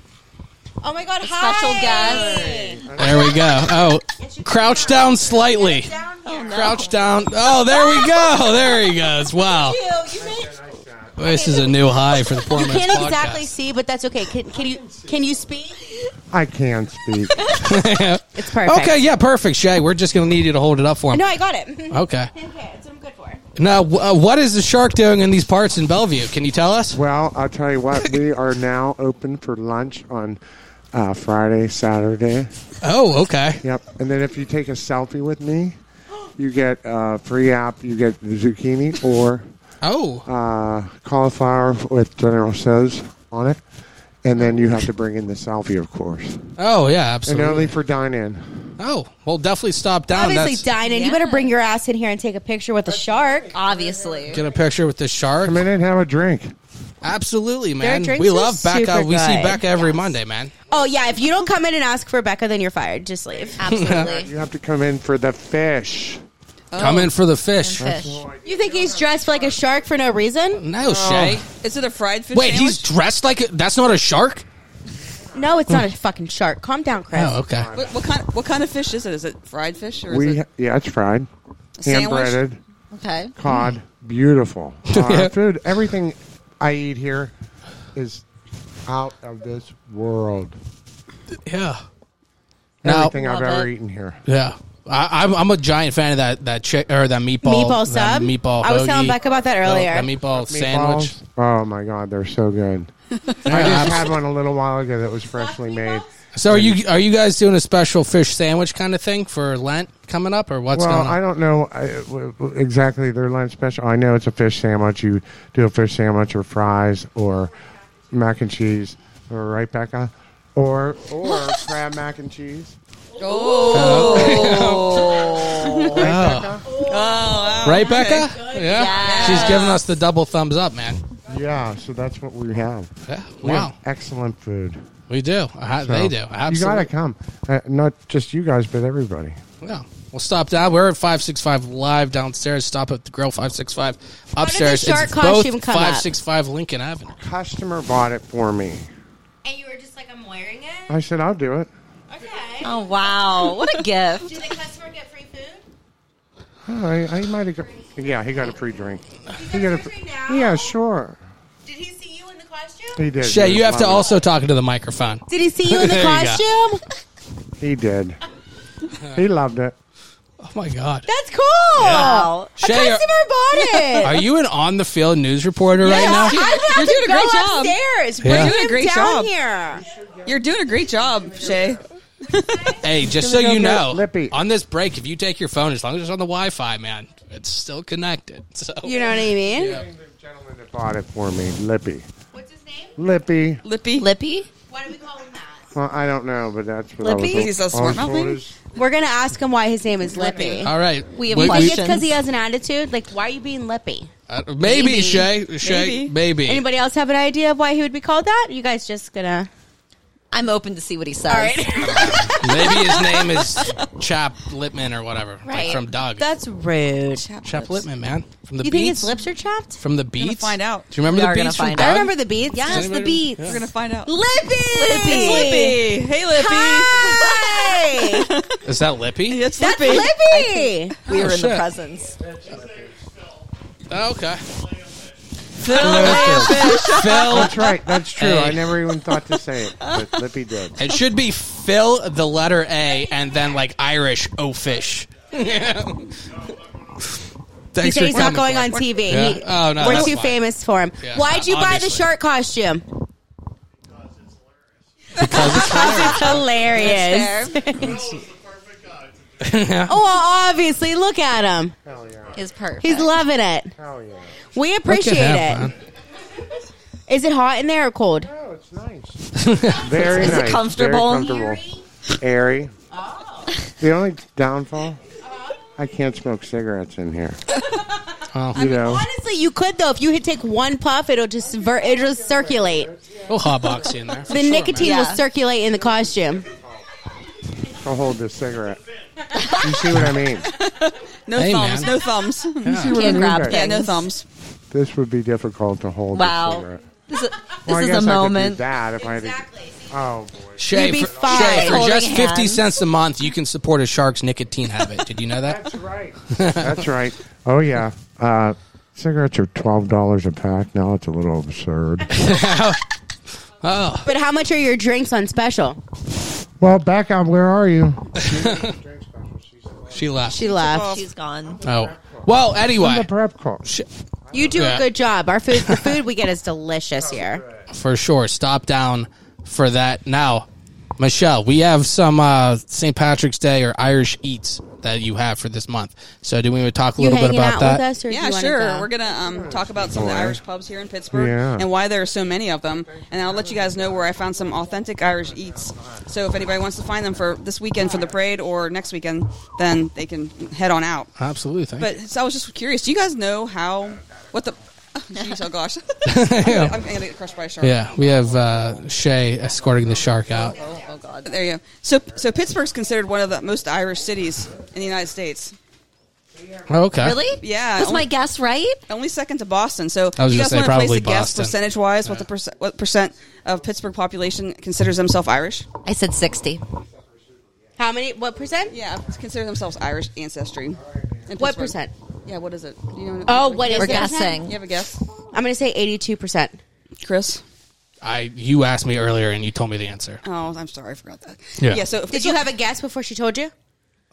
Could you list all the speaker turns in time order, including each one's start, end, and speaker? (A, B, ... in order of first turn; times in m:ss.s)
0:00.8-0:02.9 A
0:01.2-0:02.7 B
0:02.4-0:03.6 C
0:03.0-0:05.9 D
0:04.2-0:06.8 A
0:06.2-0:06.9 B
0:06.5-0:09.8 D
0:07.7-0:08.7 A
0:09.3-0:10.6 A
0:10.1-0:11.5 C
0:11.2-0:13.5 D
0:11.2-0:15.9 A
0:14.6-0:15.4 C
0:16.3-0:17.5 C
0:17.5-0:21.3 D
0:18.3-0:19.0 A
0:21.1-0:23.4 A
0:21.9-0:22.3 D
0:23.6-0:27.0 D
0:26.9-0:30.4 C
0:30.9-0:32.5 C
0:32.8-0:33.6 D
0:33.6-0:35.8 C
0:36.4-0:39.5 C
0:39.8-0:40.2 D
0:40.2-0:43.6 C
0:44.2-0:46.5 C
0:46.6-0:47.7 D
0:47.2-0:48.7 C
0:48.8-0:50.6 D
0:50.1-0:53.5 A
0:50.8-0:51.5 B
0:53.5-0:54.3 C
0:53.5-0:54.4 B
0:54.3-0:55.6 D
0:55.4-0:56.5 C
0:57.0-1:00.5 D
0:57.8-0:59.6 A
0:59.8-1:00.1 B
1:00.7-1:03.9 A
1:03.3-1:06.2 C
1:03.6-1:04.3 B
1:03.6-1:04.1 D
1:06.7-1:07.1 E
1:06.8-1:07.9 D
1:07.6-1:08.2 B
1:07.8-1:09.8 C
1:08.4-1:10.6 A
1:10.6-1:11.4 D
1:10.8-1:12.9 E
1:12.3-1:14.4 D
1:15.3-1:17.4 A
1:17.1-1:17.7 D
1:17.5-1:18.0 C
1:17.7-1:20.4 E
1:20.1-1:21.3 C
1:21.8-1:22.4 E
1:21.8-1:22.6 C
1:22.9-1:23.3 B
1:23.4-1:27.3 C
1:24.9-1:25.3 D
1:27.9-1:28.2 C
1:28.8-1:30.6 C
1:31.3-1:31.8 D
1:32.8-1:34.2 C
1:32.8-1:33.1 D
1:33.1-1:33.7 B
1:34.2-1:41.1 D
1:37.4-1:40.1 A
1:40.3-1:42.9 C
1:43.2-1:43.7 E
1:43.4-1:46.8 C
1:43.5-1:44.1 D
1:45.3-1:46.1 A
1:46.3-1:51.2 D
1:50.7-1:57.5 C
1:58.1-2:02.7 C
2:03.2-2:06.0 E
2:03.2-2:06.0 B
2:03.7-2:05.0 D
2:05.9-2:06.7 C
2:06.0-2:06.6 D
2:06.6-2:09.6 A
2:06.8-2:08.4 E
2:07.6-2:11.0 D
2:08.7-2:09.8 B
2:08.9-2:09.8 E
2:11.3-2:14.8 C
2:13.1-2:13.7 D
2:15.1-2:16.9 D
2:15.8-2:19.4 C
2:19.6-2:27.2 D
2:24.4-2:26.1 A
2:27.2-2:28.9 C
2:29.4-2:31.0 A
2:30.9-2:31.7 C
2:32.1-2:33.2 A
2:32.6-2:34.3 B
2:34.2-2:35.6 A
2:36.6-2:41.2 C
2:39.3-2:40.7 A
2:41.6-2:43.0 A
2:43.0-2:44.2 C
2:43.2-2:46.4 D
2:45.3-2:46.8 A
2:47.6-2:48.2 C
2:49.1-2:49.7 C
2:50.4-2:51.1 D
2:51.0-2:54.2 A
2:51.7-2:53.1 D
2:51.8-2:52.5 B
2:54.0-2:56.4 D
2:55.8-2:59.3 E
2:55.8-2:59.8 A
2:58.2-2:58.5 D
2:59.7-3:01.8 C
3:00.2-3:02.8 E
3:02.8-3:08.9 D
3:03.0-3:04.4 C
3:08.8-3:09.8 A
3:09.2-3:12.0 C
3:09.6-3:09.8 D
3:12.3-3:12.9 A
3:13.0-3:13.6 C
3:13.6-3:14.1 E
3:14.0-3:14.5 B
3:14.7-3:15.7 A
3:15.7-3:18.6 C
3:17.0-3:17.5 A
3:17.3-3:18.4 E
3:18.7-3:20.7 A
3:20.2-3:20.6 E
3:20.6-3:21.8 D
3:21.1-3:22.1 B
3:21.3-3:24.1 A
3:24.3-3:26.6 D
3:24.6-3:25.2 A
3:25.6-3:26.1 E
3:26.4-3:29.5 A
3:30.3-3:32.1 B
3:31.3-3:33.1 A
3:31.9-3:36.3 D
3:35.4-3:35.8 B
3:36.2-3:37.2 A
3:37.1-3:37.8 E
3:37.4-3:39.2 D
3:38.6-3:39.8 A
3:39.8-3:43.6 D
3:40.2-3:40.9 E
3:41.0-3:42.8 B
3:41.8-3:48.4 A
3:43.4-3:44.1 E
3:44.7-3:45.7 B
3:44.9-3:47.3 E
3:47.0-3:47.7 B
3:48.1-3:48.6 E
3:48.6-3:49.4 D
3:49.3-3:50.1 E
3:49.6-3:51.0 A
3:49.7-3:52.2 B
3:51.1-3:51.7 D
3:52.2-3:52.9 C
3:53.9-3:54.4 D
3:55.6-3:57.5 E
3:55.7-4:00.8 C
3:55.7-3:58.7 D
3:55.8-3:57.3 B
4:00.7-4:06.1 D
4:07.7-4:10.4 D
4:07.8-4:12.8 A
4:09.7-4:10.1 E
4:11.0-4:12.1 D
4:15.2-4:16.5 D
4:15.2-4:18.1 A
4:15.2-4:17.9 E
4:19.4-4:20.0 D
4:19.8-4:21.7 A
4:21.8-4:22.4 C
4:22.3-4:23.1 B
4:22.8-4:23.7 A
4:23.7-4:24.4 C
4:24.5-4:25.7 A
4:24.8-4:25.8 D
4:27.1-4:28.3 A
4:28.2-4:32.7 C
4:29.4-4:30.1 D
4:30.0-4:31.4 B
4:31.2-4:31.8 A
4:32.9-4:33.5 A
4:33.8-4:35.0 C
4:35.2-4:35.6 A
4:35.8-4:37.4 C
4:38.3-4:38.6 D
4:38.5-4:39.0 C
4:38.5-4:42.9 A
4:38.6-4:38.9 E
4:41.6-4:44.7 C
4:43.3-4:45.1 D
4:44.3-4:46.5 A
4:44.8-4:45.2 B
4:45.7-4:46.8 C
4:47.7-4:48.8 C
4:49.5-4:50.5 C
4:50.5-4:54.2 E
4:51.3-4:52.0 D
4:52.6-4:53.0 D
4:52.7-4:53.7 C
4:52.8-4:54.1 B
4:54.7-4:56.8 C
4:56.1-4:58.6 B
4:57.6-5:01.6 C
4:59.0-4:59.9 A
5:00.6-5:05.7 D
5:00.7-5:01.9 A
5:01.3-5:02.6 B
5:05.4-5:12.3 C
5:06.3-5:06.8 D
5:12.1-5:12.8 D
5:13.6-5:14.1 D
5:14.0-5:15.8 A
5:16.6-5:20.3 C
5:18.2-5:18.7 D
5:19.9-5:20.4 D
5:20.2-5:21.0 A
5:20.4-5:21.0 E
5:20.6-5:21.6 B
5:21.5-5:23.6 C
5:21.6-5:23.1 D
5:24.3-5:24.7 C
5:24.3-5:27.4 A
5:24.5-5:24.9 D
5:25.5-5:26.0 D
5:27.0-5:27.7 C
5:27.7-5:37.8 D
5:37.0-5:38.9 A
5:38.0-5:51.1 E
5:39.1-5:40.4 C
5:41.1-5:41.7 C
5:42.9-5:46.1 C
5:47.9-5:48.3 C
5:51.2-5:51.9 D
5:51.8-5:57.9 E
5:56.0-5:56.8 D
5:57.6-6:00.6 D
5:59.9-6:00.3 C
6:00.4-6:01.3 B
6:01.2-6:05.5 E
6:06.4-6:06.7 C
6:06.7-6:07.2 D
6:07.0-6:08.8 B
6:07.4-6:08.1 E
6:08.9-6:15.7 E
6:10.2-6:12.3 D
6:15.8-6:16.6 B
6:16.9-6:17.7 C
6:17.8-6:18.8 A
6:18.7-6:25.0 E
6:20.8-6:21.2 C
6:21.4-6:21.9 A
6:23.2-6:24.4 A
6:23.7-6:24.6 B
6:25.3-6:26.6 A
6:27.0-6:27.4 E
6:28.0-6:30.2 D
6:30.2-6:32.4 E
6:32.1-6:33.5 A